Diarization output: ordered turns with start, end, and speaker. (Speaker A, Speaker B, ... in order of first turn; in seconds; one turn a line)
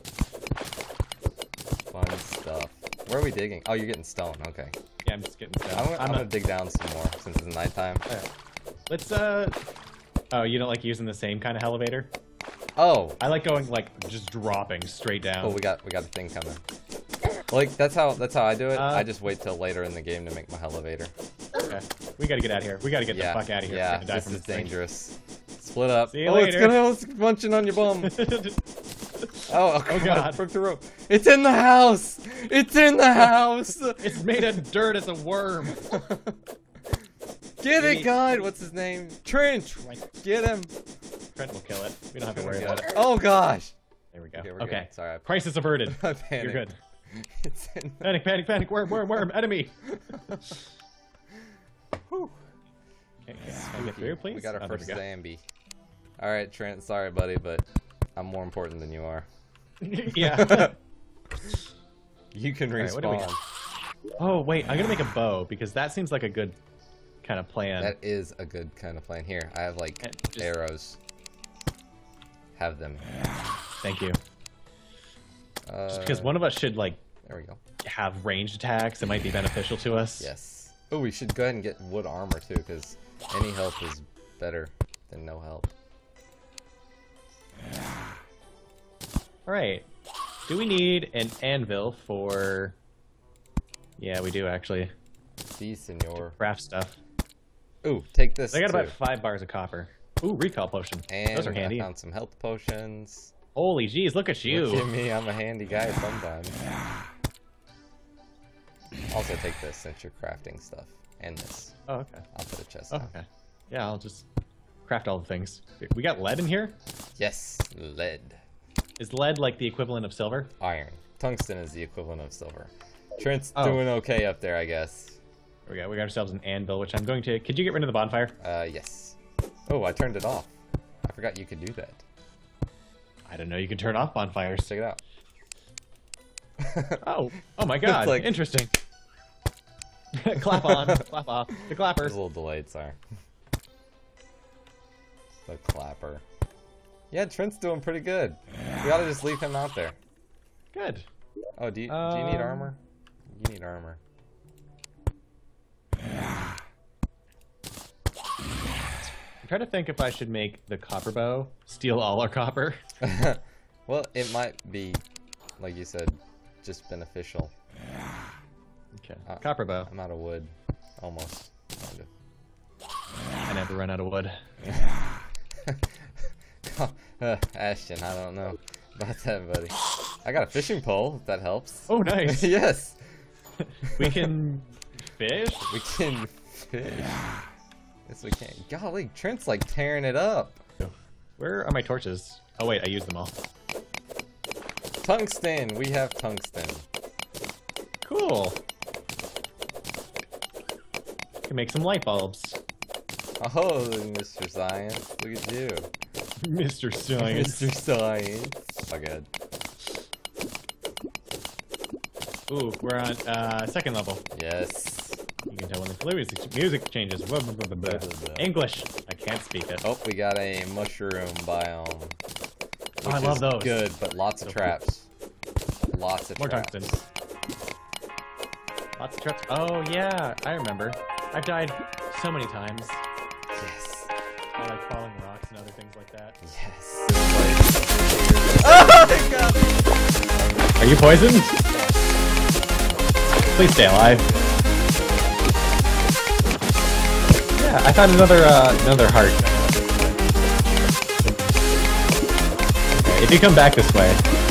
Speaker A: 1.9-4.8
Speaker B: 5.0-6.3
Speaker A: 5.7-8.0
Speaker B: 8.9-9.6
Speaker B: 10.3-12.1
Speaker A: 12.8-13.2
Speaker B: 13.2-15.6
Speaker A: 15.4-16.6
Speaker A: 17.5-21.1
Speaker B: 18.7-19.1
Speaker B: 21.6-24.7
Speaker A: 23.1-28.2
Speaker B: 26.1-26.8
Speaker B: 28.0-28.6
Speaker B: 29.2-30.4
Speaker A: 29.5-34.6
Speaker B: 34.0-35.9
Speaker A: 35.8-36.4
Speaker A: 37.6-40.7
Speaker B: 37.8-38.5
Speaker B: 41.4-42.9
Speaker A: 42.3-43.8
Speaker B: 44.1-46.8
Speaker A: 44.4-45.3
Speaker A: 45.8-48.1
Speaker B: 48.0-49.8
Speaker B: 53.2-55.0
Speaker A: 53.5-55.4
Speaker A: 56.2-57.6
Speaker A: 58.2-59.3
Speaker B: 59.8-60.8
Speaker A: 60.2-60.7
Speaker A: 62.3-63.4
Speaker B: 62.8-63.3
Speaker B: 64.2-66.6
Speaker B: 67.2-68.0
Speaker A: 67.8-71.0
Speaker B: 70.0-70.5
Speaker A: 72.6-73.1
Speaker B: 73.8-74.2
Speaker A: 75.7-76.3
Speaker B: 75.9-77.0
Speaker A: 77.2-77.6
Speaker B: 77.8-80.3
Speaker A: 80.2-85.7
Speaker B: 89.5-89.9
Speaker B: 90.5-92.8
Speaker B: 94.0-94.9
Speaker A: 95.6-96.4
Speaker B: 96.4-97.0
Speaker A: 97.8-99.0
Speaker B: 98.5-101.9
Speaker A: 101.1-103.3
Speaker B: 103.5-104.9
Speaker A: 104.5-106.6
Speaker A: 109.1-111.8
Speaker B: 111.9-112.2
Speaker A: 112.3-113.1
Speaker B: 112.9-114.3
Speaker B: 114.9-116.8
Speaker A: 117.2-118.4
Speaker B: 119.0-120.5
Speaker A: 120.6-125.2
Speaker B: 123.6-123.8
Speaker B: 125.7-128.4
Speaker A: 128.4-129.2
Speaker A: 129.7-130.5
Speaker A: 131.1-132.0
Speaker B: 133.3-134.7
Speaker A: 134.7-135.0
Speaker A: 136.6-137.0
Speaker B: 137.0-138.7
Speaker A: 137.8-138.3
Speaker B: 140.1-142.2
Speaker A: 140.7-141.0
Speaker A: 142.0-143.0
Speaker A: 145.5-146.2
Speaker A: 147.1-150.0
Speaker B: 150.7-151.1
Speaker A: 151.6-152.8
Speaker B: 151.9-152.7
Speaker A: 153.3-154.0
Speaker B: 159.4-162.8
Speaker A: 163.0-165.0
Speaker A: 165.6-167.5
Speaker B: 169.0-169.9
Speaker A: 169.3-172.1
Speaker B: 173.5-174.4
Speaker A: 176.6-183.0
Speaker B: 181.9-182.5
Speaker B: 183.9-185.7
Speaker A: 184.0-184.3
Speaker A: 185.7-187.3
Speaker A: 188.1-190.6
Speaker B: 190.8-193.4
Speaker A: 195.0-196.8
Speaker B: 198.0-198.6
Speaker B: 201.5-202.6
Speaker A: 203.4-205.9
Speaker B: 206.4-207.7
Speaker A: 207.2-209.3
Speaker B: 212.5-214.2
Speaker A: 214.3-215.2
Speaker B: 215.5-219.8
Speaker A: 217.8-218.5
Speaker A: 219.8-222.2
Speaker A: 223.0-225.1
Speaker B: 223.0-223.9
Speaker B: 224.4-224.8
Speaker A: 225.9-226.9
Speaker B: 226.4-227.1
Speaker B: 229.0-233.0
Speaker A: 233.6-234.1
Speaker B: 234.6-236.4
Speaker A: 236.4-239.8
Speaker B: 240.8-241.6
Speaker A: 241.7-242.0
Speaker A: 243.2-245.6
Speaker B: 243.5-244.3
Speaker B: 247.6-250.2
Speaker B: 252.9-254.2